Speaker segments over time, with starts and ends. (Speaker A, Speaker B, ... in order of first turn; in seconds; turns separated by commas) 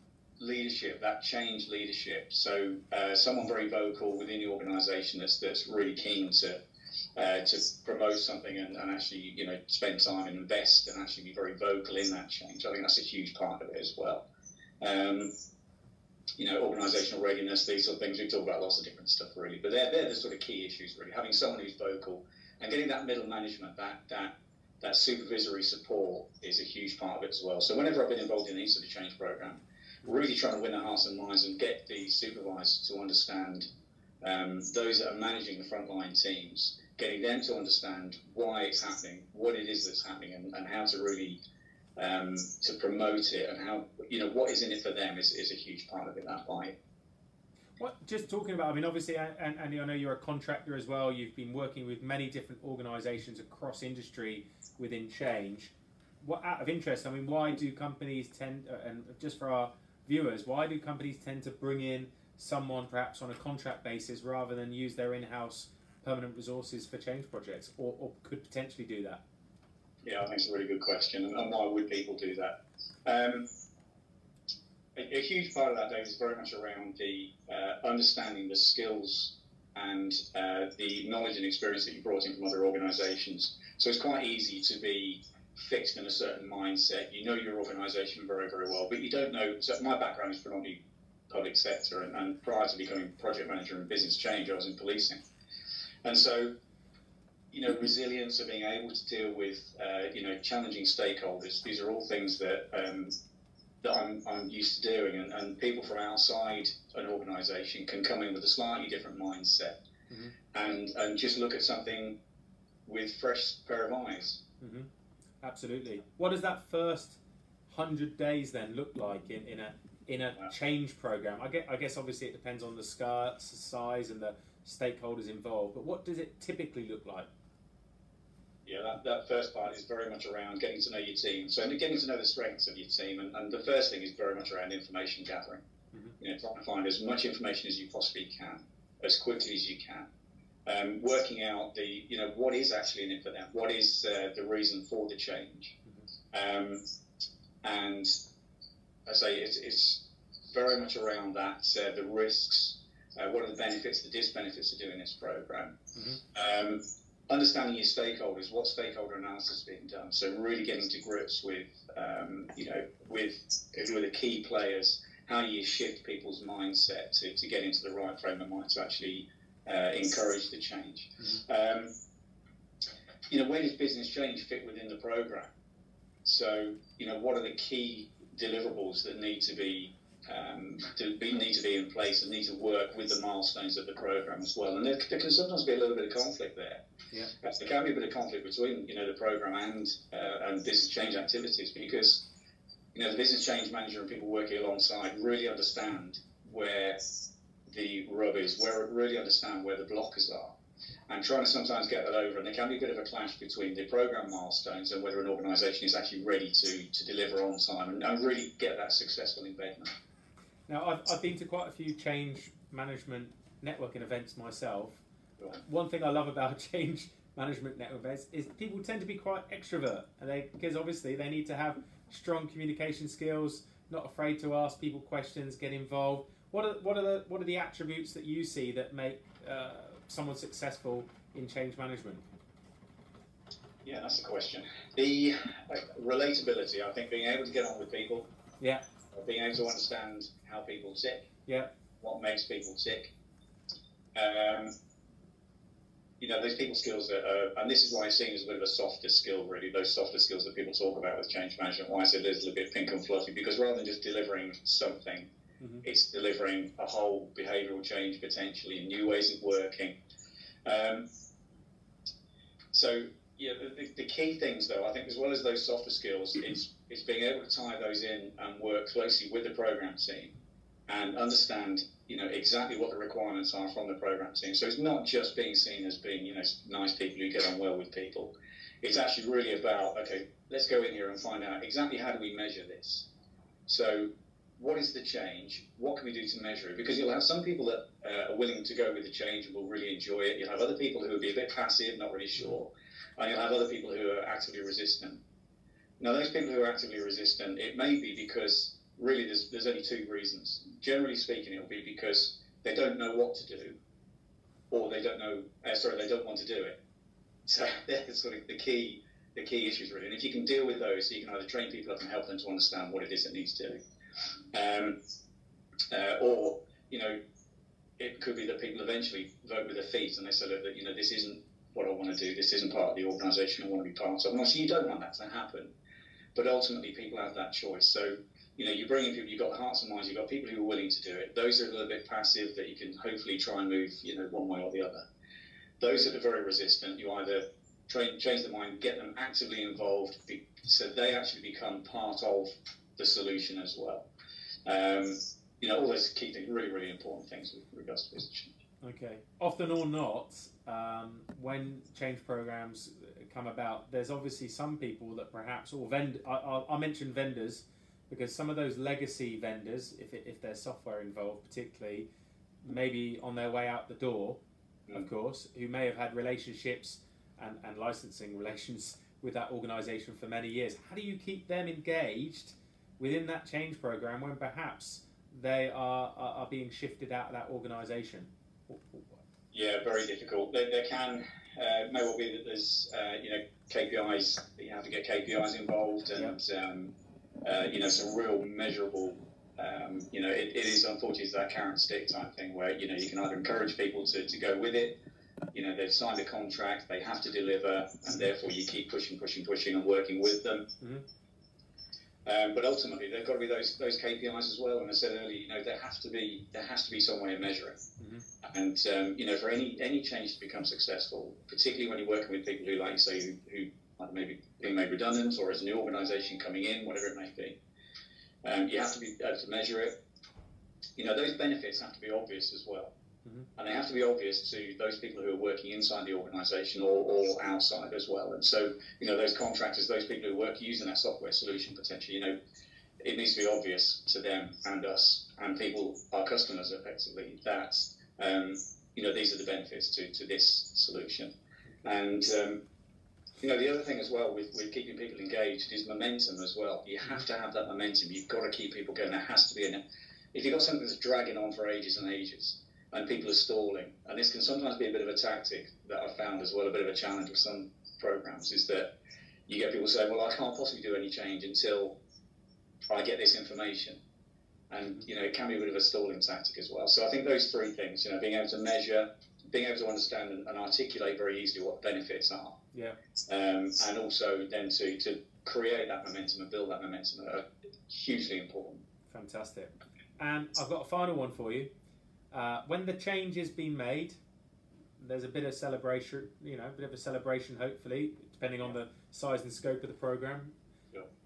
Speaker A: 0.4-6.6, Speaker A: 7.2-14.3, Speaker A: 14.8-15.3, Speaker A: 16.4-33.7, Speaker A: 34.2-41.4, Speaker A: 42.0-46.8, Speaker B: 47.8-69.2, Speaker A: 70.0-73.5, Speaker A: 75.0-90.8, Speaker A: 91.3-95.2, Speaker A: 96.0-96.5, Speaker A: 97.5-103.2, Speaker A: 103.8-109.8, Speaker B: 110.1-110.3, Speaker A: 110.5-112.2, Speaker A: 112.9-114.4, Speaker B: 114.6-114.9, Speaker B: 115.4-127.3, Speaker A: 128.7-135.6, Speaker A: 136.2-140.1, Speaker A: 140.7-145.8, Speaker A: 146.3-146.9, Speaker A: 147.6-148.2, Speaker A: 149.1-155.7, Speaker B: 155.9-156.2, Speaker A: 156.3-171.9, Speaker A: 173.3-175.5, Speaker A: 176.2-186.8, Speaker A: 187.4-192.3, Speaker A: 192.9-200.6, Speaker A: 201.1-209.9, Speaker B: 210.7-232.3, Speaker A: 233.8-238.3, Speaker A: 239.1-241.3, Speaker A: 242.0-243.1, Speaker A: 244.2-244.7, Speaker A: 246.2-255.3, Speaker A: 255.8-260.0, Speaker A: 260.6-261.1, Speaker A: 262.7-270.4, Speaker A: 270.9-283.1, Speaker A: 283.7-295.2, Speaker A: 296.0-303.8, Speaker A: 304.7-306.8, Speaker A: 307.5-313.8, Speaker A: 314.5-315.0, Speaker A: 315.9-317.2, Speaker A: 318.0-325.7, Speaker A: 326.4-335.0, Speaker A: 335.8-344.1, Speaker A: 344.6-348.5, Speaker B: 348.8-362.1, Speaker B: 362.6-364.4, Speaker B: 364.9-379.1, Speaker A: 379.5-386.9, Speaker A: 387.4-395.0, Speaker A: 395.5-400.7, Speaker A: 402.2-407.8, Speaker B: 408.0-408.3, Speaker A: 408.4-417.6, Speaker A: 418.4-420.0, Speaker A: 421.0-422.9, Speaker A: 423.6-432.4, Speaker A: 433.0-441.3, Speaker A: 441.8-442.6, Speaker A: 443.4-449.8, Speaker A: 450.3-458.9, Speaker A: 459.5-462.0, Speaker A: 462.9-464.0, Speaker A: 464.7-472.6, Speaker B: 472.7-473.0, Speaker A: 473.3-478.8, Speaker B: 479.1-481.7, Speaker B: 482.3-484.2, Speaker B: 485.0-490.5